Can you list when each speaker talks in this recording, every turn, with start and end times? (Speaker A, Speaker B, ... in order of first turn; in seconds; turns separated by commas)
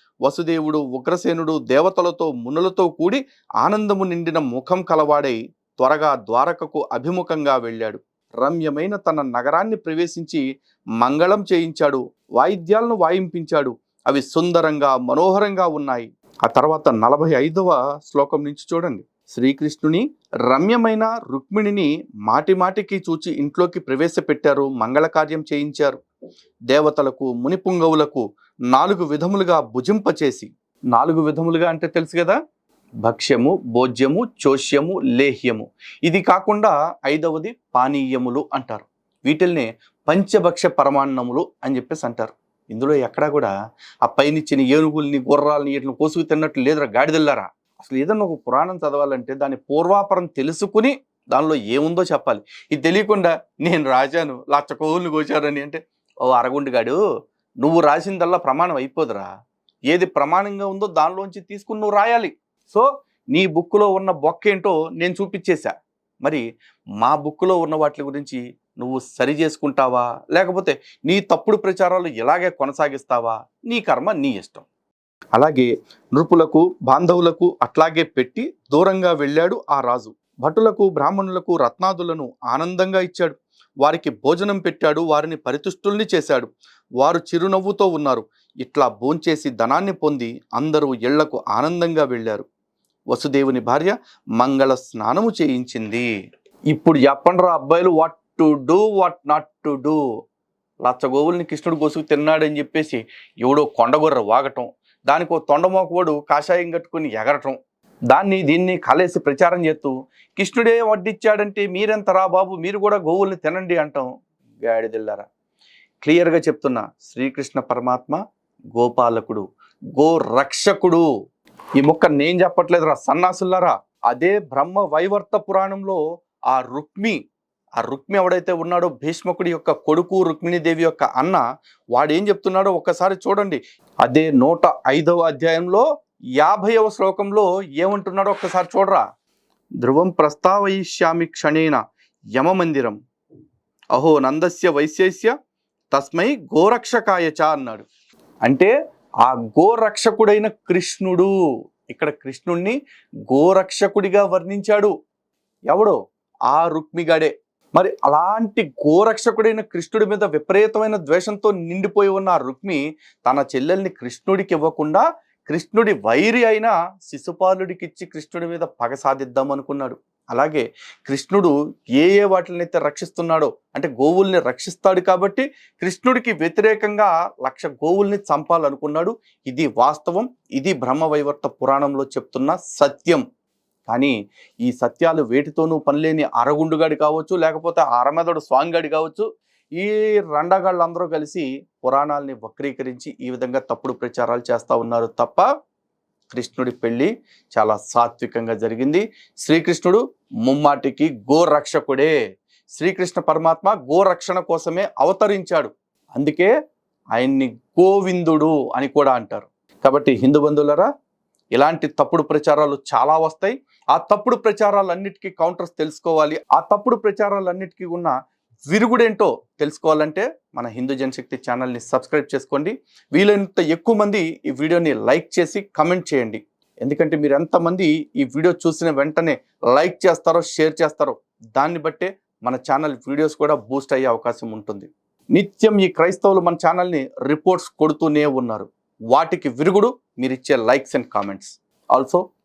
Speaker A: 0.2-10.4, Speaker A: 11.0-26.0, Speaker A: 26.7-32.4, Speaker A: 33.0-43.5, Speaker A: 44.0-57.0, Speaker A: 57.6-59.3, Speaker A: 59.9-65.7, Speaker A: 67.0-74.6, Speaker A: 75.3-86.5, Speaker A: 87.0-92.4, Speaker A: 93.1-96.0, Speaker A: 96.7-100.0, Speaker A: 100.8-107.5, Speaker A: 108.1-114.1, Speaker A: 114.7-115.3, Speaker A: 116.0-118.2, Speaker A: 118.7-119.4, Speaker A: 119.9-121.0, Speaker A: 121.8-126.0, Speaker A: 126.5-127.2, Speaker A: 127.8-131.4, Speaker A: 131.9-135.8, Speaker A: 136.4-139.0, Speaker A: 139.8-141.8, Speaker A: 142.3-143.0, Speaker A: 143.9-145.3, Speaker A: 145.9-147.8, Speaker A: 148.4-148.7, Speaker A: 149.2-151.3, Speaker A: 151.9-152.7, Speaker A: 153.3-154.9, Speaker A: 156.5-183.2, Speaker A: 183.9-184.1, Speaker A: 184.6-189.2, Speaker A: 189.8-195.4, Speaker A: 196.3-202.1, Speaker A: 202.8-206.5, Speaker A: 207.2-210.9, Speaker A: 211.5-218.1, Speaker A: 218.7-242.2